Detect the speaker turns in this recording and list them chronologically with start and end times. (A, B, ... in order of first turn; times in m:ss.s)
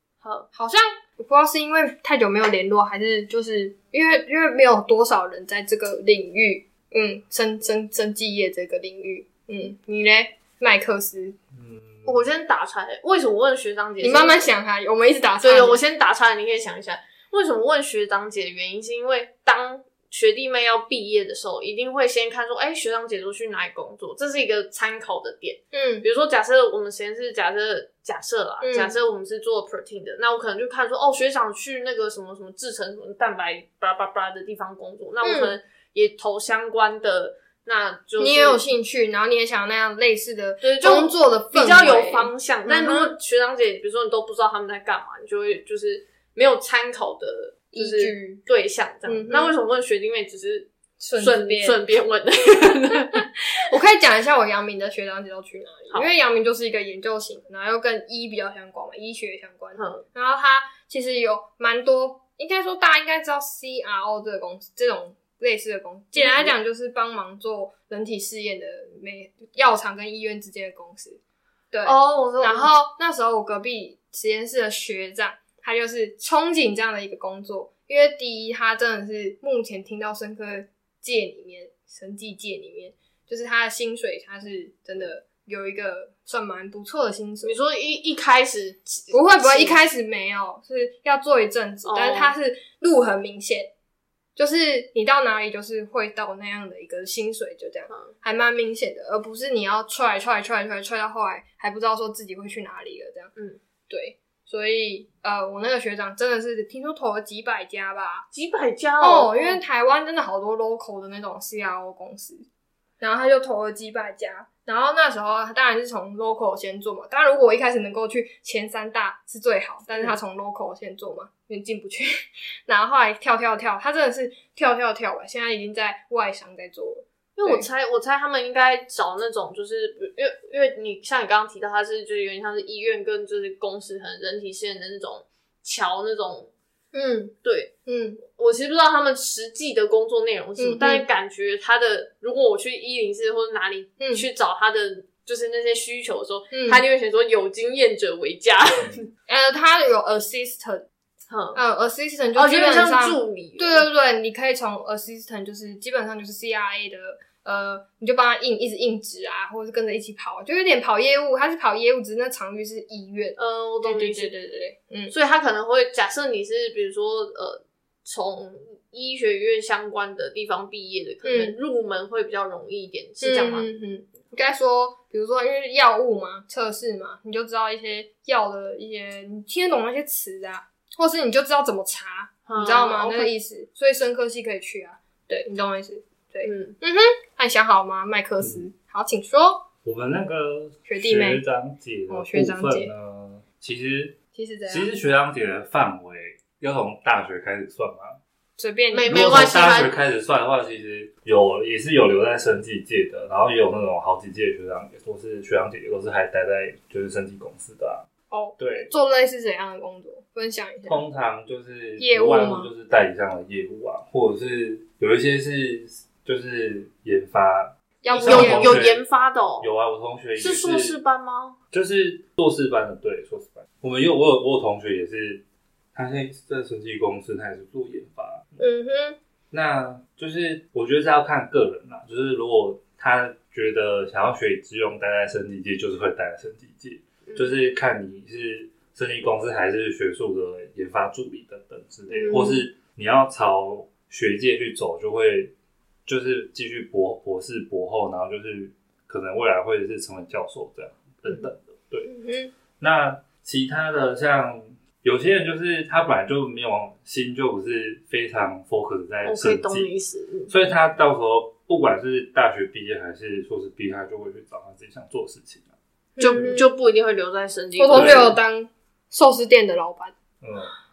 0:00.2-0:00.5 A
0:00.5-0:11.4 B
0:11.5-0:12.3 C
0:12.1-0:14.5 A
0:14.0-0:15.8 B
0:15.4-0:38.6 A
0:25.7-0:26.0 B
0:28.6-0:29.0 B
0:35.2-0:35.6 B
0:38.2-0:43.2 B
0:40.6-0:53.2 A
0:47.7-0:48.4 B
0:49.1-0:49.6 B
0:51.0-0:51.8 B
0:53.1-1:11.2 B
0:59.8-1:00.0 A
1:06.2-1:06.5 A
1:11.7-1:27.6 B
1:11.8-1:12.7 A
1:27.4-1:29.8 A
1:29.1-1:33.7 B
1:31.8-1:32.3 A
1:34.4-1:43.3 B
1:43.9-1:48.3 B
1:48.3-1:49.6 A
1:49.0-1:52.4 B
1:53.0-2:02.1 B
2:02.7-2:07.7 B
2:07.4-2:16.5 A
2:16.9-2:17.3 B
2:17.4-2:29.1 A
2:17.9-2:18.2 B
2:20.6-2:21.0 B
2:24.0-2:24.3 B
2:26.5-2:26.8 B
2:29.3-2:30.9 B
2:31.3-2:31.6 A
2:31.6-2:45.1 B
2:32.4-2:33.9 A
2:43.4-2:44.3 A
2:45.1-2:53.7 A
2:51.2-2:51.6 B
2:53.2-3:09.7 B
3:02.5-3:03.3 A
3:06.4-3:06.8 A
3:09.8-3:14.2 C
3:10.9-3:11.4 B
3:12.1-3:12.9 B
3:14.3-3:14.9 B
3:14.7-3:18.2 C
3:18.6-3:19.4 B
3:18.9-3:20.0 A
3:19.1-3:28.1 C
3:28.3-3:31.0 B
3:28.6-3:28.9 C
3:30.9-3:39.0 C
3:32.0-3:32.7 B
3:38.0-3:38.8 B
3:38.2-3:39.7 A
3:39.6-3:41.0 C
3:40.4-3:41.6 A
3:41.7-3:45.4 C
3:45.9-3:48.6 C
3:48.6-3:49.2 B
3:49.5-4:05.5 C
3:57.3-3:57.5 A
4:02.1-4:02.6 A
4:06.1-4:12.1 C
4:12.0-4:12.5 B
4:12.8-4:19.9 C
4:19.2-4:20.5 A
4:20.5-4:25.7 C
4:26.2-4:26.7 B
4:26.2-4:28.4 A
4:27.8-4:30.1 B
4:27.9-4:28.4 C
4:30.4-4:30.7 C